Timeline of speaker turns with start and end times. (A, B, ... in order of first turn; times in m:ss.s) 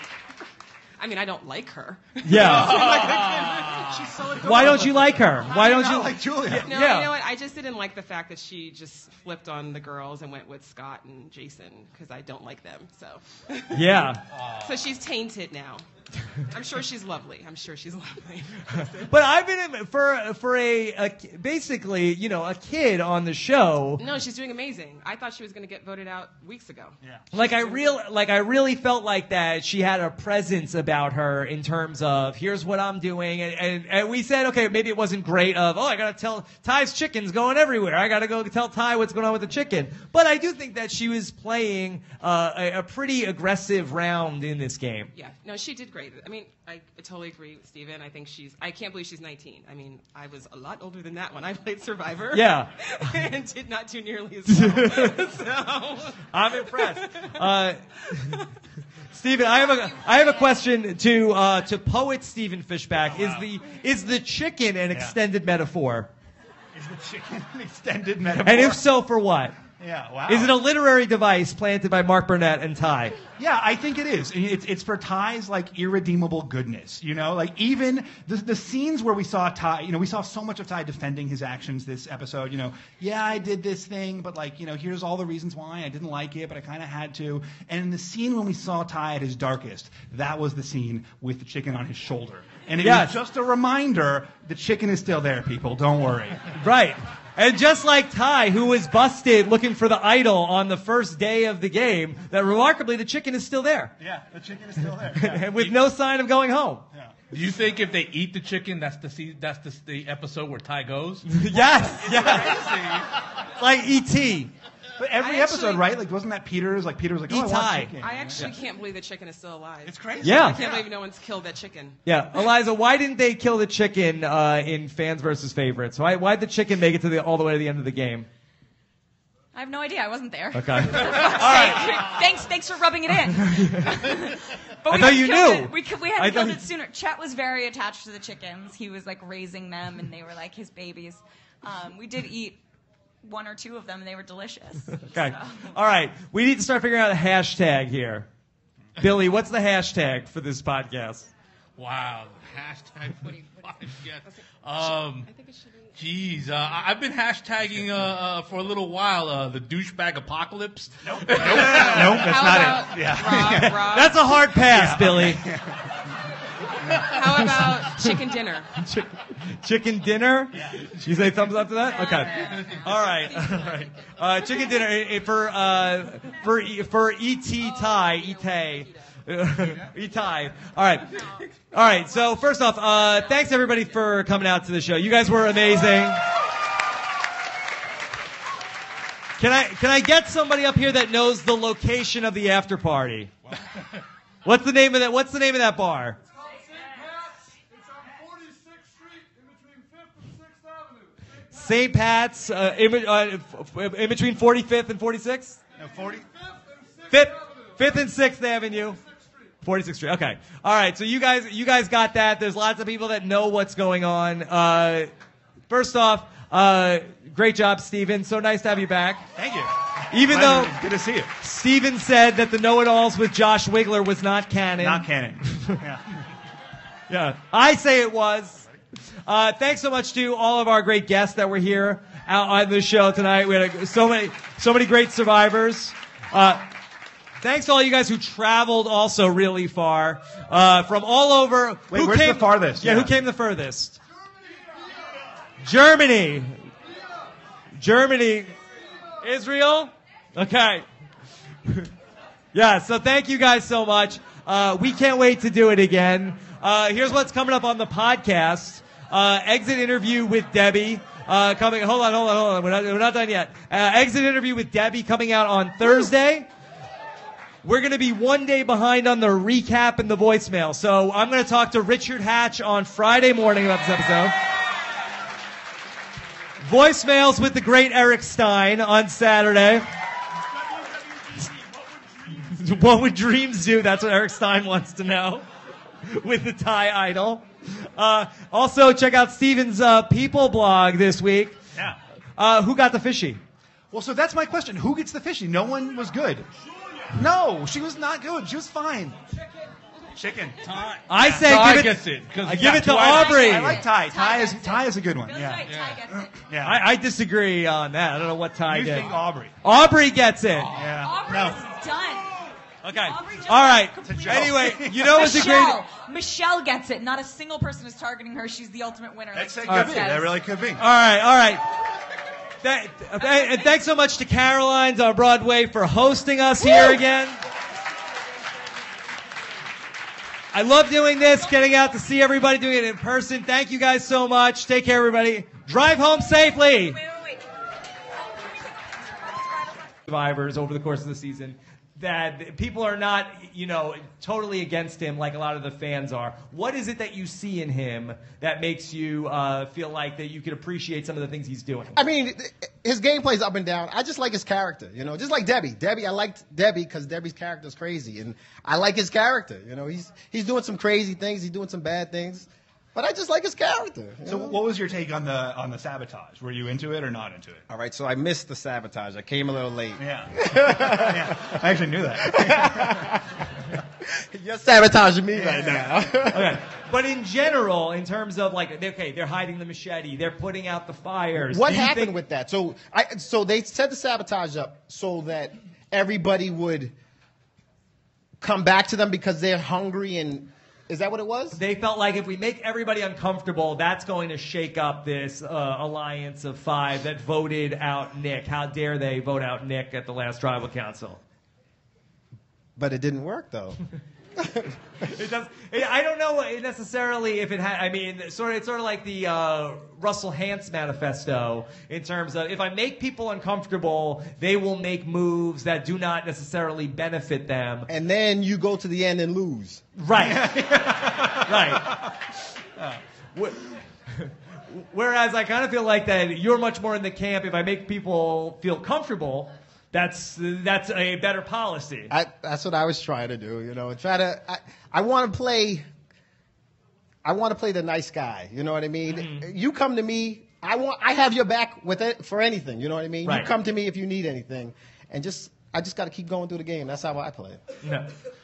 0:01.0-0:05.5 A
0:02.2-0:02.8 B
0:02.3-0:03.9 C
0:02.6-0:03.4 D
0:04.4-0:07.1 B
0:05.5-0:06.7 D
0:06.4-0:15.8 A
0:13.7-0:14.2 B
0:16.4-0:19.1 A
0:18.8-0:24.0 B
0:24.0-0:27.9 A
0:27.0-0:27.3 D
0:27.3-0:45.1 B
0:45.1-0:57.4 A
0:52.3-0:53.1 B
0:54.5-0:55.2 B
0:56.3-0:58.4 B
0:59.1-1:06.1 B
1:03.0-1:03.6 D
1:06.7-1:08.8 D
1:08.4-1:09.6 B
1:09.8-1:10.6 D
1:10.3-1:13.2 B
1:13.4-1:36.5 D
1:32.8-1:33.2 B
1:36.6-1:43.9 B
1:44.0-1:45.8 D
1:45.2-1:46.8 B
1:47.3-1:51.3 C
1:51.2-1:52.7 B
1:51.6-1:53.2 D
1:53.6-1:54.5 B
1:55.0-1:58.6 D
1:57.3-1:57.9 B
1:58.0-2:02.0 A
1:59.8-2:00.9 D
2:00.2-2:00.6 B
2:02.0-2:08.3 B
2:09.5-2:22.6 E
2:10.5-2:12.0 B
2:11.5-2:12.0 C
2:13.4-2:14.1 B
2:14.9-2:16.7 B
2:23.2-2:25.7 E
2:24.9-2:28.3 B
2:29.0-2:31.3 B
2:31.8-2:35.3 C
2:34.2-2:35.9 A
2:36.0-2:42.5 C
2:41.0-2:43.8 D
2:41.5-2:44.6 A
2:43.3-2:45.4 B
2:44.7-2:45.9 D
2:46.8-2:47.2 D
2:47.0-2:48.7 A
2:47.6-2:48.1 B
2:48.8-3:01.1 B
2:50.5-2:50.9 D
2:52.1-2:53.8 A
2:57.6-2:58.9 A
3:01.7-3:06.2 B
3:09.4-3:13.3 B
3:14.4-3:16.2 B
3:21.5-3:25.6 B
3:25.8-3:26.3 D
3:27.1-3:29.0 B
3:29.6-3:35.1 B
3:35.7-3:39.3 B
3:39.4-3:41.3 D
3:40.1-3:40.8 B
3:41.4-3:45.8 B
3:44.8-3:46.2 D
3:47.1-3:48.6 B
3:49.2-3:56.7 B
3:57.4-4:04.0 B
4:01.9-4:03.1 D
4:05.6-4:06.7 B
4:07.8-4:08.6 B
4:09.2-4:10.8 B
4:12.5-4:26.5 B
4:27.6-4:34.4 B
4:36.6-4:39.9 B
4:42.3-4:45.4 B
4:46.0-4:51.6 B
4:52.4-4:53.4 B
4:53.9-4:56.5 D
4:57.1-4:59.2 D
5:00.1-5:01.5 D
5:00.7-5:03.3 C
5:01.1-5:03.8 B
5:03.0-5:06.4 E
5:03.2-5:06.8 D
5:05.7-5:06.0 C
5:06.6-5:10.7 B
5:08.7-5:09.5 D
5:10.7-5:10.9 C
5:10.7-5:11.6 D
5:10.9-5:20.4 E
5:12.8-5:15.8 B
5:14.0-5:15.2 D
5:19.3-5:20.8 D
5:19.7-5:20.0 B
5:20.8-5:21.6 B
5:22.6-5:27.4 B
5:23.2-5:23.7 E
5:30.5-5:37.0 B
5:40.0-5:52.0 B
5:52.0-6:04.6 F
6:04.2-6:07.7 D
6:07.7-6:11.5 F
6:10.0-6:13.2 D
6:12.3-6:13.2 F
6:14.2-6:16.6 F
6:15.3-6:16.2 D
6:16.3-6:22.1 B
6:21.5-6:26.9 F
6:28.4-6:31.6 F
6:31.5-6:41.2 B
6:42.8-6:43.8 F
6:44.4-6:44.7 F
6:45.1-6:57.9 B
6:57.9-6:59.8 F
7:00.0-7:00.5 B
7:00.2-7:02.1 D
7:01.4-7:01.9 B
7:03.3-7:12.1 B
7:12.1-7:15.9 F
7:17.2-7:27.6 F
7:19.1-7:19.5 B
7:27.8-7:28.1 B